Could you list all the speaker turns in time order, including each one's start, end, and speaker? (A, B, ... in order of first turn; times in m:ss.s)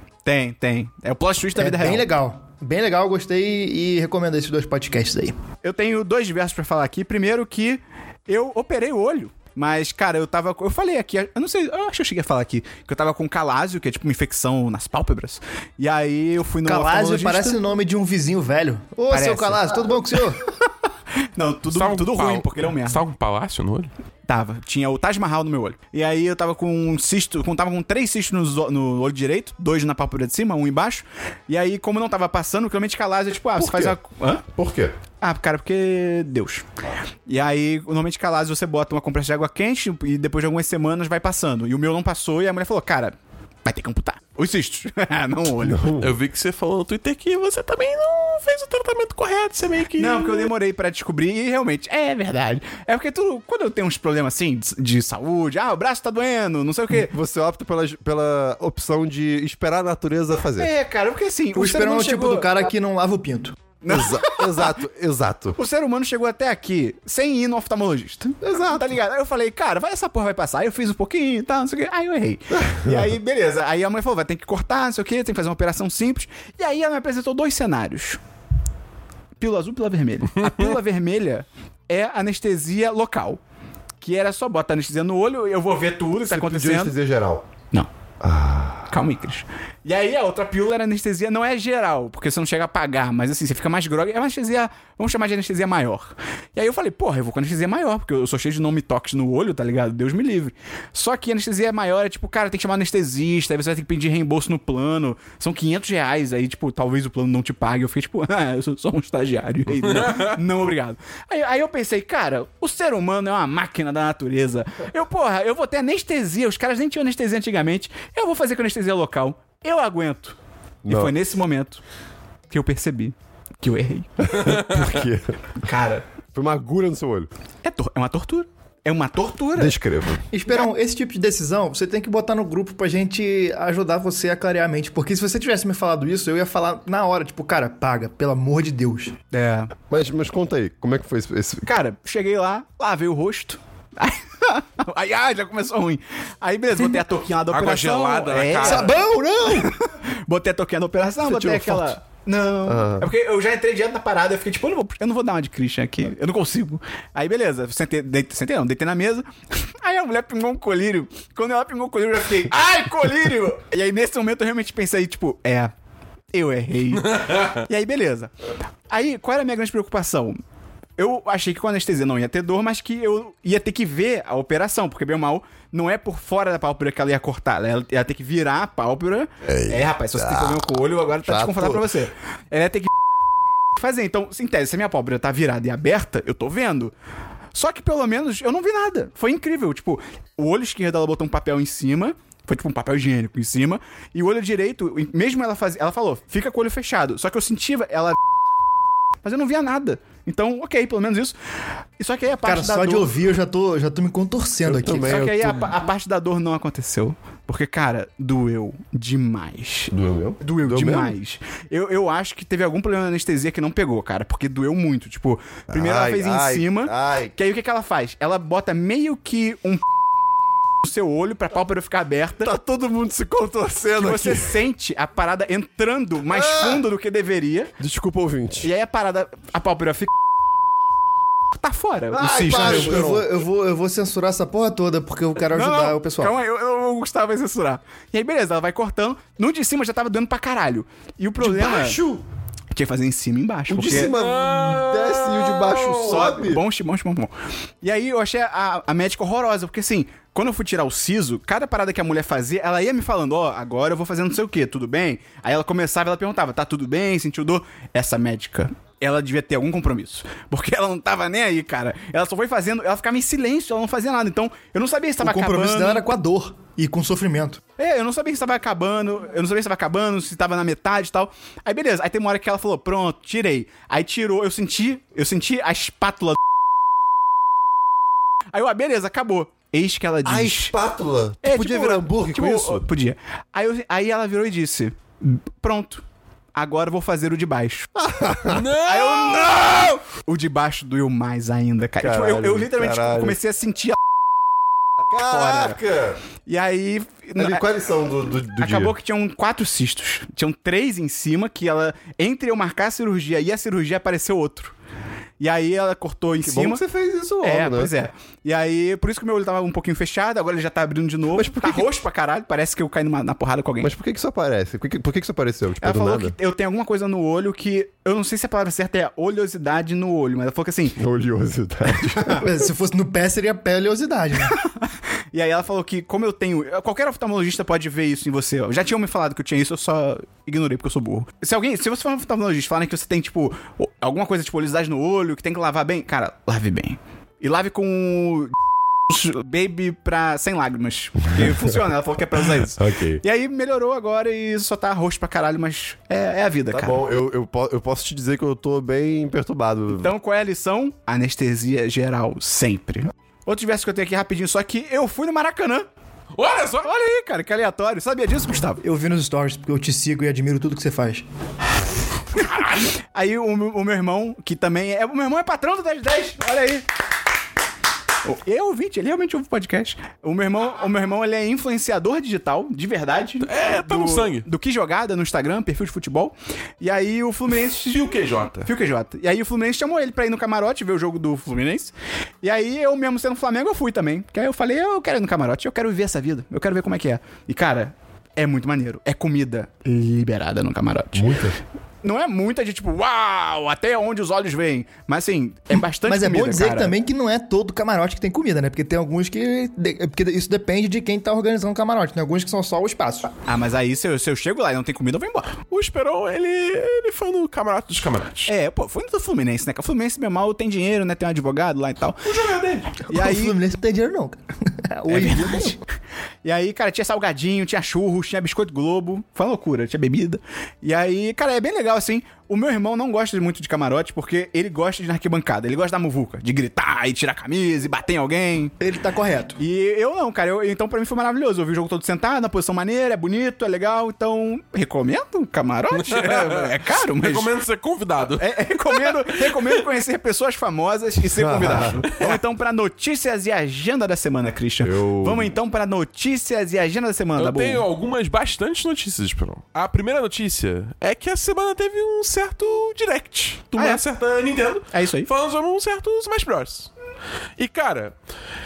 0:00.2-0:02.1 A
0:01.6-0:05.4 B
0:05.6-0:17.6 A
0:16.6-0:20.4 B
0:19.1-0:19.8 A
0:20.7-0:23.0 A
0:21.7-0:23.9 C
0:24.3-0:34.4 A
0:33.6-0:34.0 D
0:34.5-0:34.9 D
0:35.2-0:36.7 A
0:37.3-0:45.8 A
0:45.6-0:46.2 D
0:46.0-0:50.5 C
0:50.0-0:57.1 A
0:56.9-1:00.7 D
1:00.6-1:02.6 A
1:01.6-1:03.6 B
1:03.8-1:04.7 A
1:03.9-1:05.6 D
1:05.6-1:18.2 A
1:08.4-1:08.8 D
1:12.5-1:13.2 D
1:19.4-1:23.4 A
1:20.4-1:20.8 C
1:24.0-1:27.0 A
1:26.2-1:27.5 D
1:28.2-1:29.0 D
1:28.9-2:00.4 A
1:49.8-1:50.4 C
2:00.8-2:01.1 D
2:00.9-2:01.8 A
2:02.5-2:04.1 A
2:04.2-2:05.4 D
2:04.4-2:04.9 C
2:05.6-2:06.0 A
2:06.4-2:07.3 D
2:07.6-2:09.8 A
2:09.6-2:10.3 D
2:10.3-2:19.2 B
2:19.3-2:19.7 A
2:19.9-2:21.7 D
2:21.6-2:45.7 A
2:27.5-2:29.0 C
2:28.6-2:29.7 B
2:28.9-2:29.7 D
2:31.2-2:32.0 D
2:32.6-2:33.1 D
2:46.3-2:48.3 A
2:47.0-2:47.6 C
2:48.9-2:50.4 A
2:51.0-3:02.9 A
2:59.4-3:01.9 D
3:03.8-3:06.9 A
3:07.5-3:18.2 A
3:19.2-3:21.4 A
3:22.0-3:23.1 A
3:22.4-3:25.2 B
3:24.6-3:25.7 D
3:25.0-3:39.8 A
3:29.9-3:31.2 D
3:35.7-3:37.3 D
3:40.8-3:42.5 A
3:42.4-3:44.6 D
3:44.0-3:47.7 A
3:46.3-3:46.8 D
3:47.8-3:48.7 D
3:48.6-3:50.1 A
3:51.5-3:53.1 A
3:52.1-3:53.3 D
3:52.4-3:56.3 B
3:55.4-4:02.0 A
4:01.4-4:02.2 D
4:02.7-4:04.1 A
4:03.7-4:06.6 D
4:04.0-4:06.3 C
4:06.0-4:26.0 A
4:25.2-4:27.6 B
4:27.8-4:36.4 A
4:38.5-4:40.8 A
4:40.2-4:42.9 D
4:41.4-4:46.0 A
4:46.5-4:47.9 A
4:48.0-4:48.7 D
4:48.5-4:49.9 C
4:48.8-4:54.0 A
4:52.0-4:53.4 D
4:55.0-4:56.2 D
4:55.2-4:55.8 A
4:56.5-4:57.6 A
4:57.4-4:58.9 D
4:58.6-5:04.8 A
5:05.4-5:06.8 A
5:06.4-5:08.0 D
5:07.4-5:13.9 A
5:11.3-5:11.9 D
5:13.8-5:16.4 D
5:15.8-5:21.0 A
5:21.0-5:22.6 D
5:22.1-5:22.4 A
5:22.4-5:24.6 B
5:24.4-5:38.6 A
5:39.1-5:47.0 A
5:42.8-5:43.2 D
5:46.7-5:50.1 D
5:50.0-5:55.9 A
5:56.4-5:56.9 C
5:56.8-5:58.8 A
5:58.8-6:01.2 B
6:02.3-6:06.9 A
6:08.2-6:31.4 A
6:13.4-6:14.5 C
6:17.9-6:18.7 C
6:31.1-6:31.6 D
6:32.0-6:37.0 A
6:36.1-6:43.3 B
6:43.5-6:45.6 A
6:45.7-6:48.5 C
6:48.5-6:52.3 A
6:52.2-6:53.0 C
6:53.1-6:55.8 B
6:53.1-6:53.6 A
6:55.1-6:55.8 A
6:56.4-7:08.8 A
7:08.8-7:09.6 B
7:09.6-7:17.5 A
7:15.9-7:19.8 C
7:18.4-7:27.8 A
7:21.4-7:22.0 D
7:22.0-7:22.4 C
7:24.8-7:25.5 D
7:27.4-7:36.9 C
7:33.8-7:34.0 A
7:34.9-7:35.3 A
7:37.6-7:38.2 C